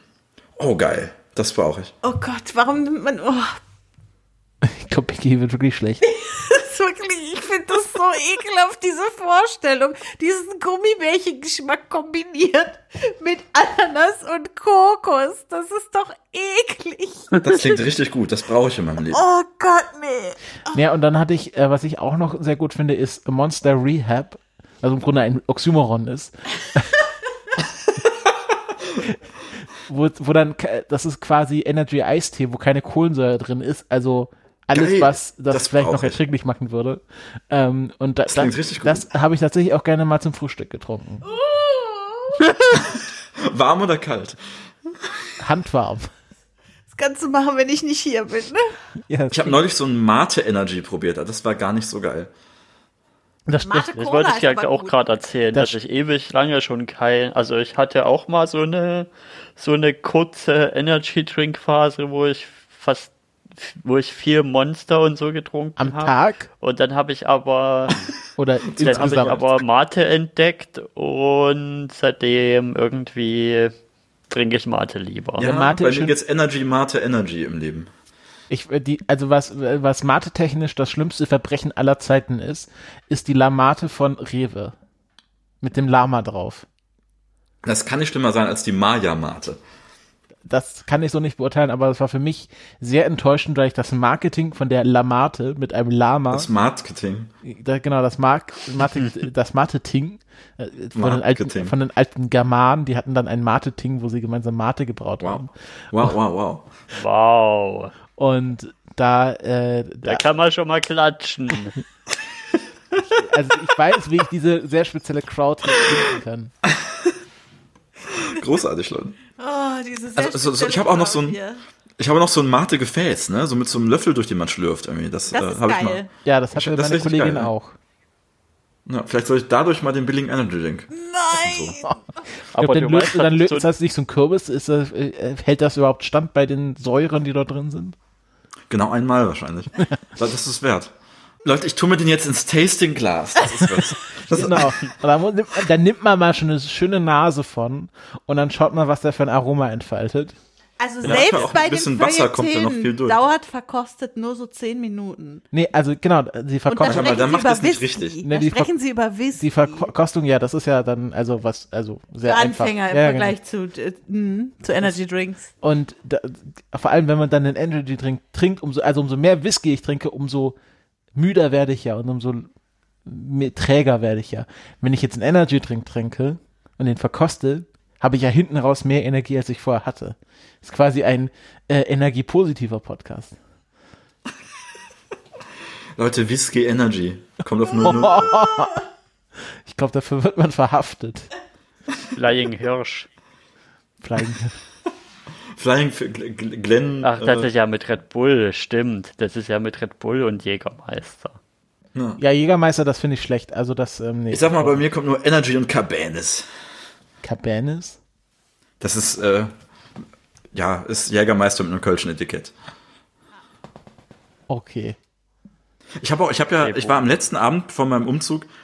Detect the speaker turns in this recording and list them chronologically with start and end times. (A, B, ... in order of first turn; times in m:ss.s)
0:00.6-0:01.9 A
0:02.0-0:03.6 B
0:04.6-0:06.1 C
0:06.1-0:17.3 B
0:17.4-0:19.2 A
0:19.1-0:20.4 B
0:20.7-0:26.9 C
0:29.8-0:41.3 C
0:34.7-0:36.2 A
0:38.3-0:39.1 A
0:41.2-0:42.5 B
0:42.9-0:44.4 A
0:45.4-0:46.1 C
0:46.9-0:48.7 B
0:49.1-0:49.6 C
0:49.3-0:52.3 A
0:53.5-0:54.0 C
0:53.6-0:54.9 B
0:54.0-1:08.0 D
1:05.8-1:06.5 C
1:08.4-1:09.4 C
1:08.7-1:09.5 A
1:08.8-1:13.7 D
1:14.3-1:15.5 D
1:15.4-1:17.9 A
1:15.4-1:16.1 C
1:18.5-1:24.8 C
1:25.6-1:26.6 C
1:27.6-1:29.6 A
1:30.5-1:36.5 C
1:36.3-1:37.3 A
1:37.4-1:45.5 C
1:41.0-1:41.7 A
1:45.2-1:46.7 A
1:46.9-1:47.9 D
1:48.2-1:50.2 C
1:50.0-1:51.8 D
1:53.1-1:56.5 C
1:58.2-1:59.2 A
1:59.4-2:01.6 B
2:00.2-2:01.4 A
2:02.0-2:06.0 A
2:05.3-2:06.1 B
2:06.2-2:07.8 C
2:06.5-2:07.5 A
2:08.8-2:11.8 A
2:10.9-2:11.9 B
2:12.5-2:13.7 D
2:12.5-2:18.0 C
2:18.7-2:20.9 A
2:21.4-2:24.8 A
2:24.3-2:30.3 C
2:30.8-2:35.4 B
2:31.0-2:33.2 A
2:35.5-2:37.3 C
2:36.7-2:39.9 B
2:36.8-2:38.2 A
2:38.2-2:38.7 C
2:39.4-2:43.4 C
2:42.2-2:45.5 B
2:45.6-2:50.6 C
2:51.1-2:52.5 C
2:53.0-3:03.4 C
3:06.0-3:08.3 A
3:07.8-3:08.8 C
3:09.6-3:11.3 C
3:12.1-3:13.1 D
3:14.0-3:14.6 C
3:15.6-3:17.5 A
3:17.0-3:21.4 D
3:21.9-3:22.2 A
3:22.2-3:24.8 C
3:24.3-3:26.5 A
3:27.2-3:28.0 C
3:28.8-3:29.5 A
3:30.5-3:32.5 A
3:34.5-3:35.0 C
3:36.0-3:38.5 A
3:36.6-3:37.0 D